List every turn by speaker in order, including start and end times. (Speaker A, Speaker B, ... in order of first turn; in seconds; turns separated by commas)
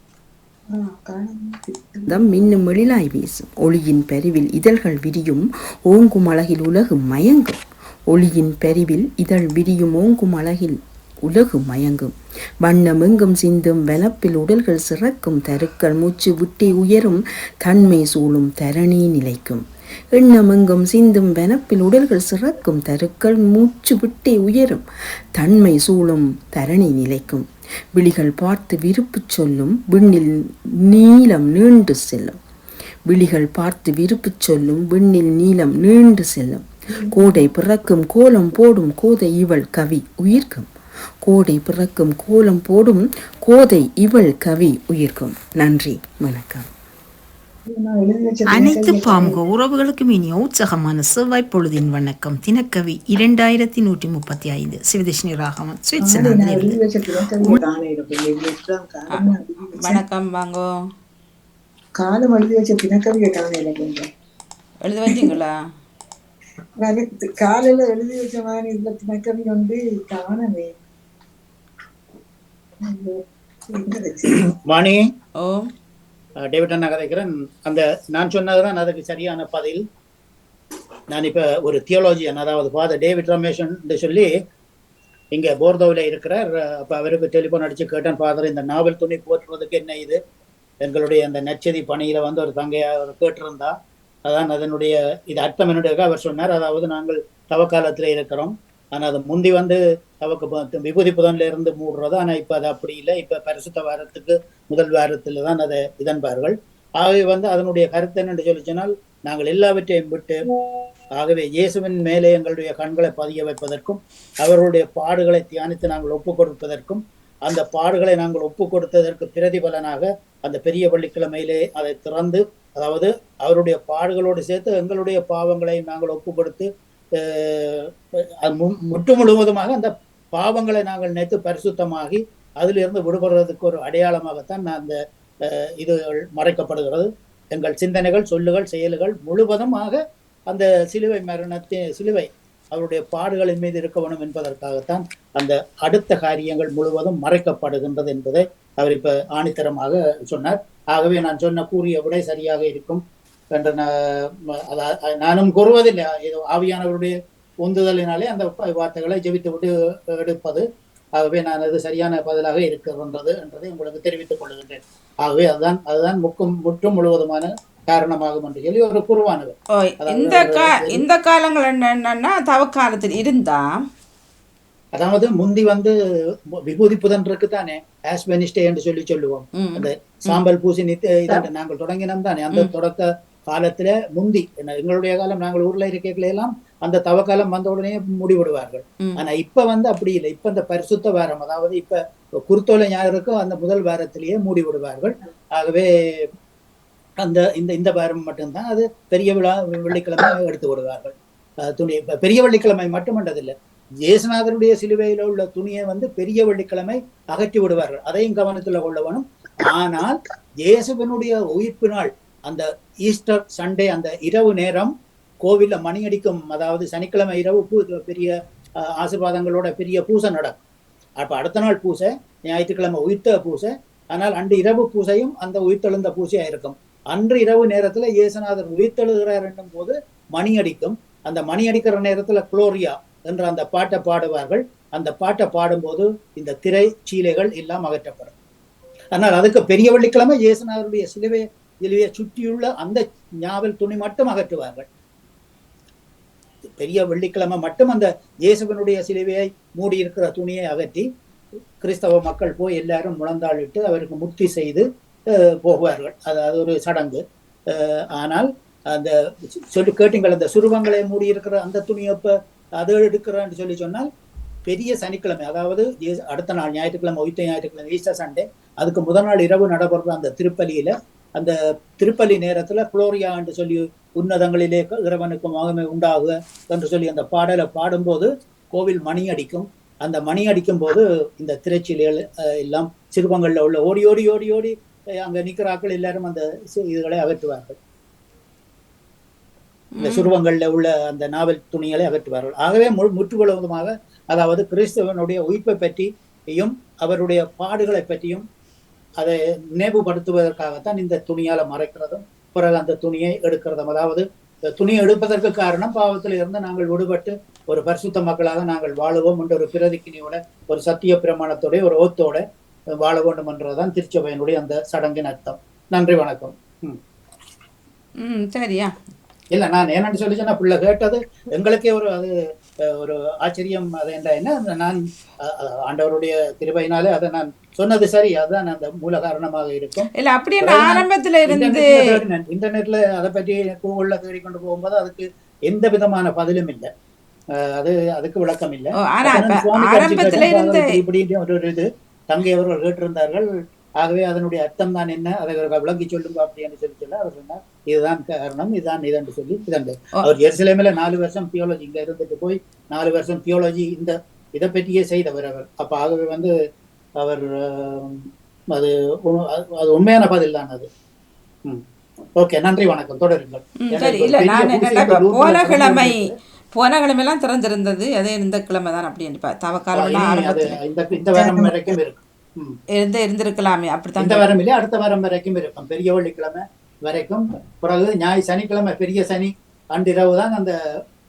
Speaker A: 0.7-2.3, Speaker B: 2.1-24.9, Speaker B: 25.4-32.4, Speaker B: 33.1-40.7, Speaker B: 41.2-46.7, Speaker A: 47.7-49.4, Speaker C: 48.5-57.6, Speaker A: 56.0-60.0, Speaker D: 59.8-60.7, Speaker A: 62.0-64.1, Speaker D: 64.8-65.5, Speaker A: 66.8-70.8, Speaker A: 72.8-74.4, Speaker E: 74.7-75.0, Speaker D: 75.4-75.7, Speaker E: 76.5-79.8, Speaker E: 81.1-84.3, Speaker E: 85.3-90.2, Speaker E: 90.8-93.7, Speaker E: 94.3-110.4, Speaker E: 111.2-127.9, Speaker E: 128.4-140.0, Speaker E: 140.5-153.0, Speaker E: 153.6-160.7, Speaker E: 161.2-171.0, Speaker D: 169.8-173.7, Speaker E: 175.0-175.9, Speaker E: 176.7-195.9, Speaker D: 179.6-180.4, Speaker E: 197.2-214.9, Speaker E: 215.4-220.6, Speaker E: 221.2-238.3, Speaker E: 239.1-244.9, Speaker E: 246.8-251.1, Speaker E: 251.8-264.1, Speaker E: 264.7-287.8, Speaker D: 290.0-290.3, Speaker E: 290.0-298.4, Speaker E: 299.2-312.4, Speaker E: 313.0-317.0, Speaker D: 318.2-318.9, Speaker E: 319.5-322.3, Speaker E: 322.8-330.1, Speaker D: 330.2-332.2, Speaker E: 330.6-336.9, Speaker E: 337.8-343.5, Speaker D: 339.0-340.9, Speaker E: 344.0-356.5, Speaker E: 357.2-360.9, Speaker E: 362.4-366.4, Speaker D: 363.8-366.1, Speaker D: 366.8-370.7, Speaker E: 369.9-372.8, Speaker A: 371.4-371.9, Speaker D: 373.0-374.5, Speaker E: 374.2-380.7